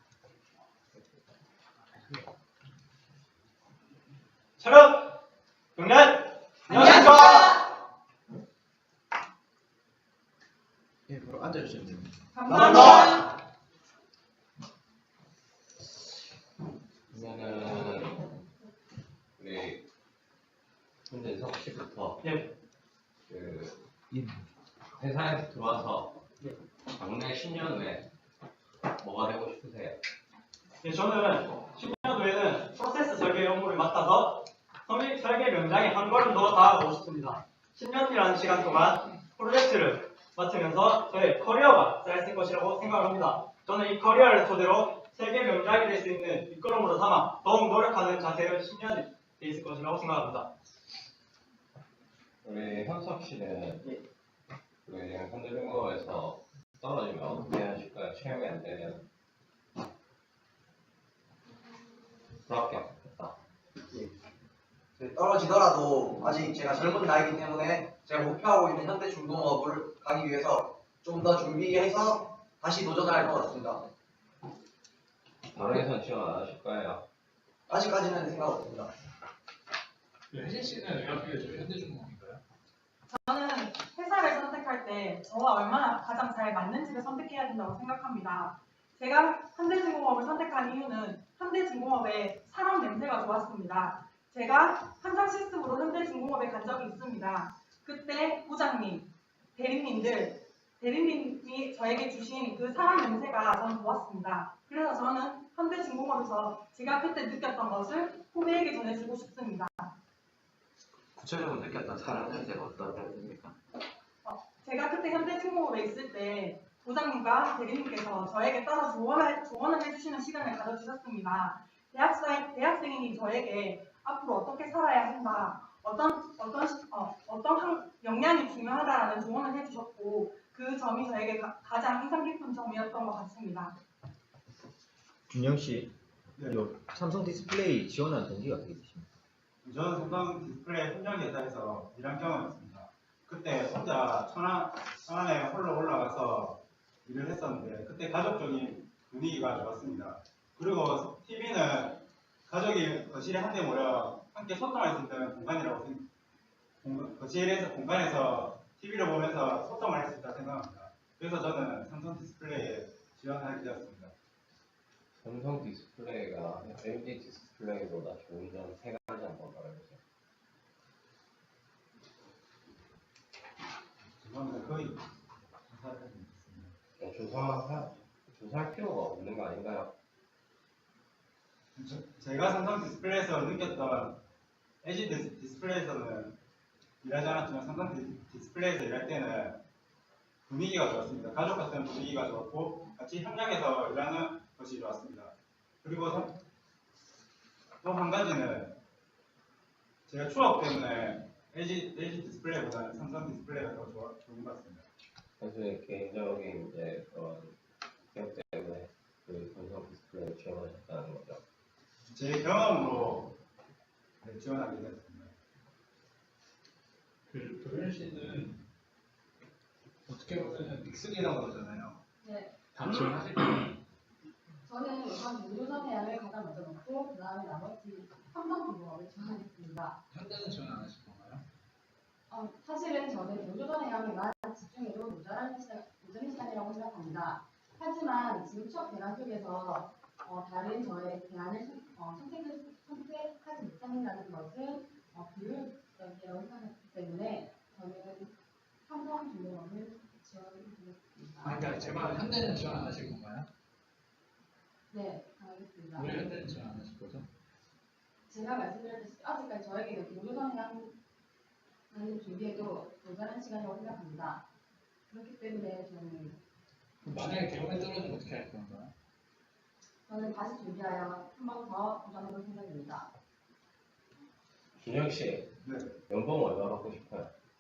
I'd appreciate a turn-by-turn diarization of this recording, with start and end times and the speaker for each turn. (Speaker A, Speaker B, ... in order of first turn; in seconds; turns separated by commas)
Speaker A: 4.6-5.2, Speaker A: 5.7-7.4, Speaker B: 11.1-12.1, Speaker C: 12.3-13.1, Speaker D: 12.5-13.2, Speaker E: 17.1-18.3, Speaker E: 19.4-19.8, Speaker E: 21.1-22.2, Speaker A: 22.2-22.5, Speaker E: 23.3-23.8, Speaker E: 24.9-26.2, Speaker E: 26.9-28.1, Speaker E: 29.0-30.0, Speaker A: 30.8-50.5, Speaker E: 52.4-53.9, Speaker E: 54.8-59.0, Speaker E: 62.5-63.4, Speaker D: 65.0-73.8, Speaker E: 75.5-77.0, Speaker D: 77.7-78.9, Speaker F: 80.3-82.4, Speaker C: 83.1-109.9, Speaker B: 111.1-113.5, Speaker C: 114.2-133.7, Speaker B: 135.3-135.9, Speaker B: 136.5-139.1, Speaker G: 139.6-156.1, Speaker G: 156.8-164.1, Speaker E: 165.2-170.0, Speaker G: 174.2-175.0, Speaker G: 175.7-176.7, Speaker E: 177.0-179.9, Speaker G: 181.8-184.2, Speaker G: 184.8-186.3, Speaker G: 187.0-189.6, Speaker G: 190.5-196.3, Speaker G: 197.8-198.8, Speaker G: 200.1-204.8, Speaker E: 205.4-207.6, Speaker E: 208.1-211.4, Speaker G: 212.1-213.3, Speaker G: 214.2-215.3, Speaker F: 217.3-218.6, Speaker F: 220.1-222.0, Speaker H: 222.2-222.5, Speaker F: 222.7-223.8, Speaker H: 224.6-230.0, Speaker F: 230.1-231.4, Speaker H: 232.3-248.3, Speaker H: 248.8-252.2, Speaker F: 251.4-253.5, Speaker H: 254.9-256.3, Speaker F: 255.9-257.3, Speaker H: 258.3-260.9, Speaker H: 261.9-264.4, Speaker H: 265.1-266.4, Speaker F: 267.0-268.9, Speaker H: 270.1-273.1, Speaker E: 274.8-275.5, Speaker G: 275.6-276.0, Speaker E: 276.1-277.3